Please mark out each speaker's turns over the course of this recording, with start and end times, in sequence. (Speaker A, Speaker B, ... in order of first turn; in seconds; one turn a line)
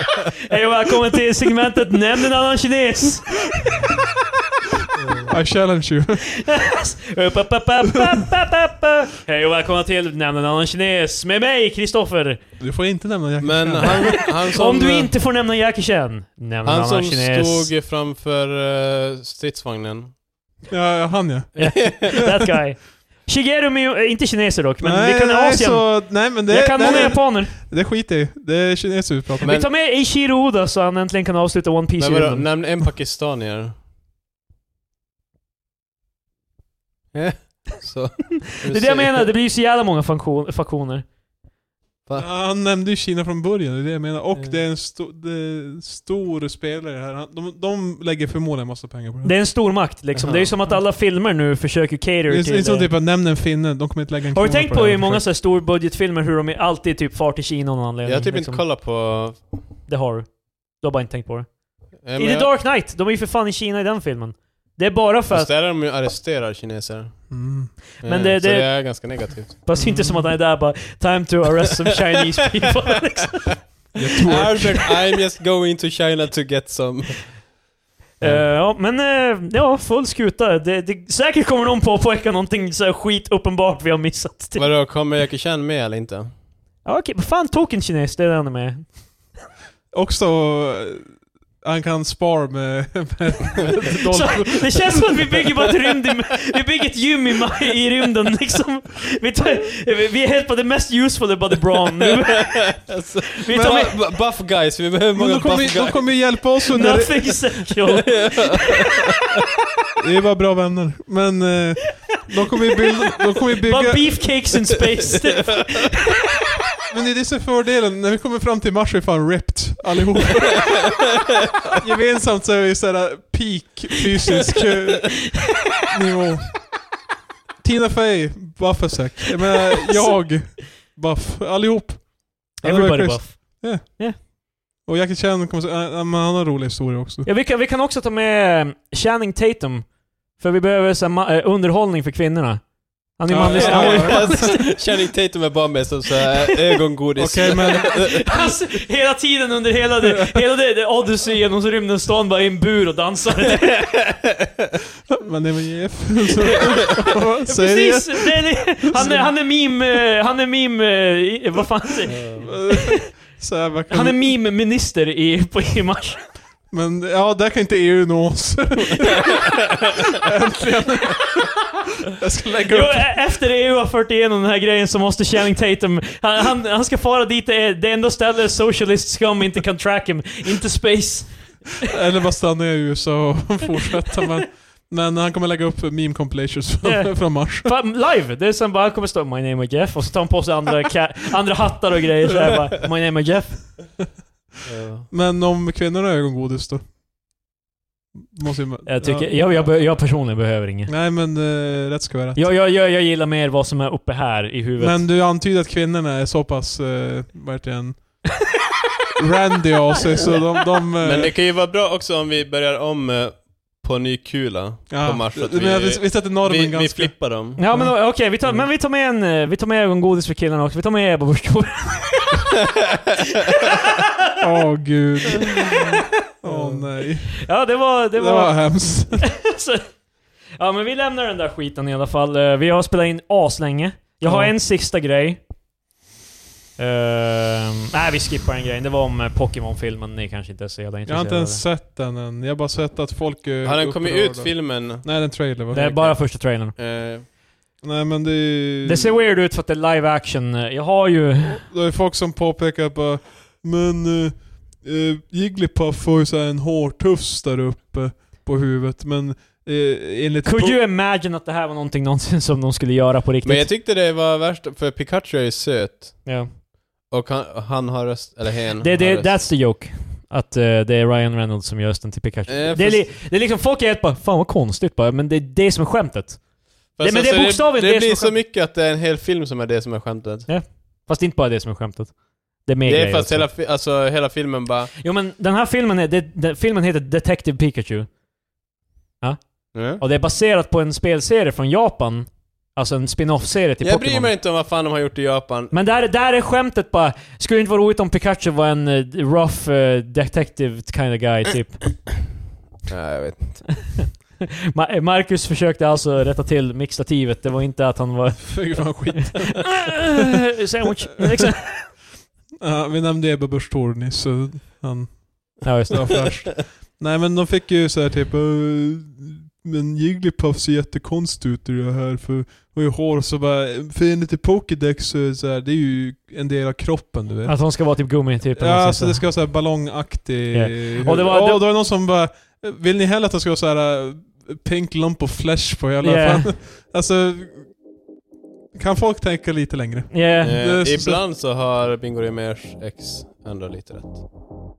Speaker A: 0.5-4.0
Speaker B: 5.0-5.3
Speaker C: 5.3-6.4
Speaker A: 6.4-12.4
Speaker C: 12.6-14.2
Speaker B: 13.4-15.1
Speaker A: 13.8-17.7
Speaker B: 16.6-20.1
Speaker C: 20.7-22.3
Speaker B: 21.6-22.2
Speaker A: 21.6-27.5
Speaker C: 24.8-29.6
Speaker B: 29.4-29.7
Speaker A: 29.4-32.5
Speaker B: 32.0-33.8
Speaker B: 37.1-39.3
Speaker A: 38.5-41.0
Speaker C: 42.2-49.3
Speaker A: 49.2-52.9
Speaker B: 50.1-50.5
Speaker C: 52.3-55.3
Speaker A: 54.3-58.6
Speaker B: 58.0-59.6
Speaker A: 59.9-65.5
Speaker B: 62.0-62.5
Speaker B: 65.3-69.6
Speaker C: 67.3-67.8
Speaker A: 68.0-74.9
Speaker C: 69.8-70.4
Speaker C: 74.0-74.8
Speaker B: 74.2-77.6
Speaker A: 78.2-84.7
Speaker B: 78.2-78.5
Speaker B: 84.6-86.3
Speaker A: 86.8-89.1
Speaker C: 89.9-95.3
Speaker A: 94.1-104.0
Speaker B: 102.5-106.5
Speaker C: 105.1-107.7
Speaker A: 106.7-109.0
Speaker B: 108.1-109.0
Speaker C: 110.0-114.3
Speaker A: 112.5-116.2
Speaker C: 116.9-121.0
Speaker C: 121.7-126.7
Speaker C: 127.6-137.3
Speaker A: 132.6-134.2
Speaker A: 137.3-144.8
Speaker C: 143.3-144.6
Speaker B: 143.5-148.3
Speaker C: 147.2-148.2
Speaker A: 147.9-153.8
Speaker C: 150.1-150.4
Speaker B: 153.6-154.5
Speaker C: 155.1-159.4
Speaker A: 157.5-166.3
Speaker B: 162.1-162.5
Speaker C: 162.4-164.4
Speaker C: 166.7-173.2
Speaker A: 172.7-181.8
Speaker C: 181.9-187.8
Speaker A: 186.8-194.0
Speaker B: 194.7-195.1
Speaker C: 195.1-196.8
Speaker C: 198.3-199.8
Speaker A: 198.9-200.9
Speaker C: 200.9-202.4
Speaker A: 202.3-205.1
Speaker C: 204.8-208.3
Speaker C: 209.2-211.3
Speaker B: 211.0-217.6
Speaker C: 214.9-218.0
Speaker A: 217.6-222.5
Speaker A: 223.5-224.1
Speaker C: 224.4-225.8
Speaker C: 226.4-229.3
Speaker A: 226.5-235.4
Speaker C: 234.2-234.6
Speaker A: 236.8-241.6
Speaker C: 241.1-245.8
Speaker B: 243.6-247.3
Speaker A: 245.7-246.7
Speaker C: 247.8-249.2
Speaker A: 248.8-251.6
Speaker C: 251.4-260.8
Speaker A: 260.4-263.7
Speaker B: 263.4-266.6
Speaker A: 266.2-266.5
Speaker B: 267.1-269.5
Speaker A: 268.8-278.4
Speaker B: 272.5-273.1
Speaker B: 277.0-280.5
Speaker A: 280.5-283.5
Speaker B: 282.9-284.9
Speaker A: 285.0-288.1
Speaker A: 289.2-294.3
Speaker B: 289.7-290.0
Speaker B: 293.8-295.7
Speaker A: 295.7-302.1
Speaker B: 302.9-304.0
Speaker A: 304.7-312.0
Speaker C: 308.4-310.2
Speaker C: 312.6-327.6
Speaker A: 315.6-316.3
Speaker A: 327.5-329.2
Speaker C: 328.6-337.8
Speaker A: 330.5-331.7
Speaker A: 336.0-336.5
Speaker C: 338.7-341.2
Speaker A: 340.1-340.6
Speaker B: 340.4-344.2